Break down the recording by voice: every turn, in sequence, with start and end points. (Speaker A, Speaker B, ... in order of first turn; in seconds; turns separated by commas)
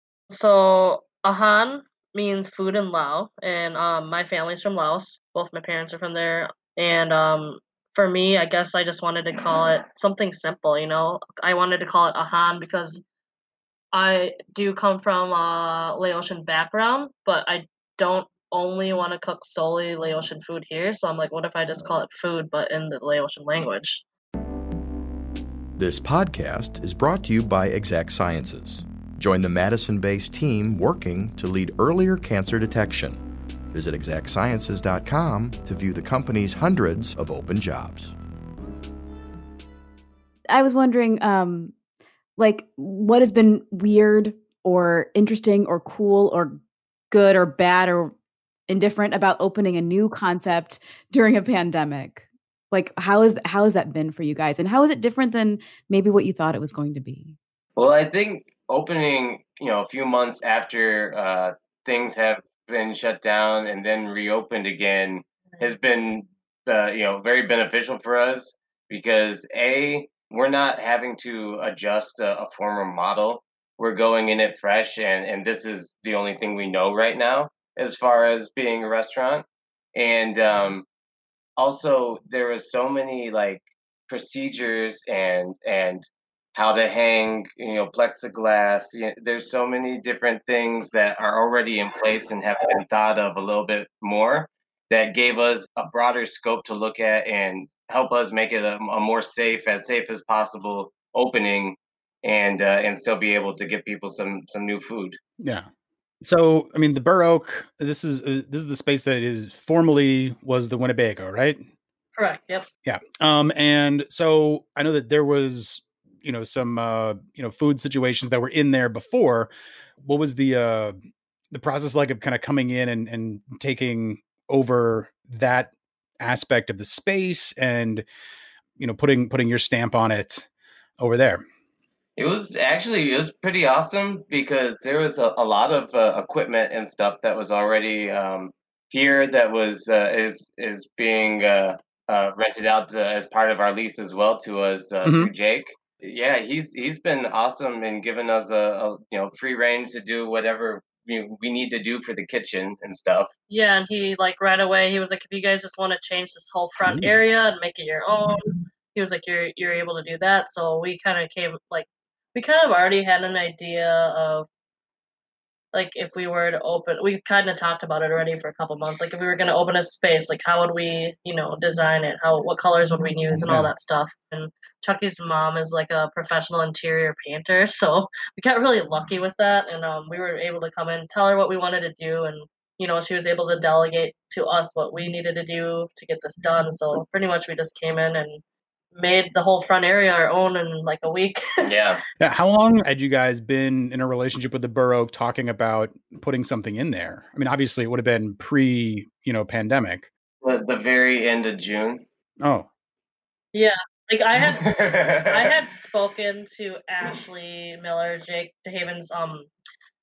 Speaker A: 0.3-13.0, Speaker A: 13.9-24.0, Speaker B: 25.8-38.1, Speaker C: 40.5-41.7, Speaker C: 42.4-46.6, Speaker C: 47.1-48.1, Speaker C: 48.7-57.4, Speaker D: 57.8-80.9, Speaker D: 81.6-105.2, Speaker E: 105.4-105.7, Speaker E: 106.2-111.6, Speaker A: 112.2-112.7, Speaker E: 112.8-121.0, Speaker E: 121.5-128.1, Speaker E: 128.8-130.5, Speaker E: 131.0-131.4, Speaker D: 132.2-153.3, Speaker E: 145.0-145.3, Speaker A: 153.5-164.5, Speaker E: 156.8-157.1, Speaker A: 165.7-188.4, Speaker E: 173.4-173.7, Speaker A: 188.9-191.4, Speaker D: 191.6-192.0, Speaker E: 192.2-200.1, Speaker D: 200.4-202.0, Speaker E: 202.4-202.7, Speaker A: 203.5-209.5, Speaker D: 204.5-205.5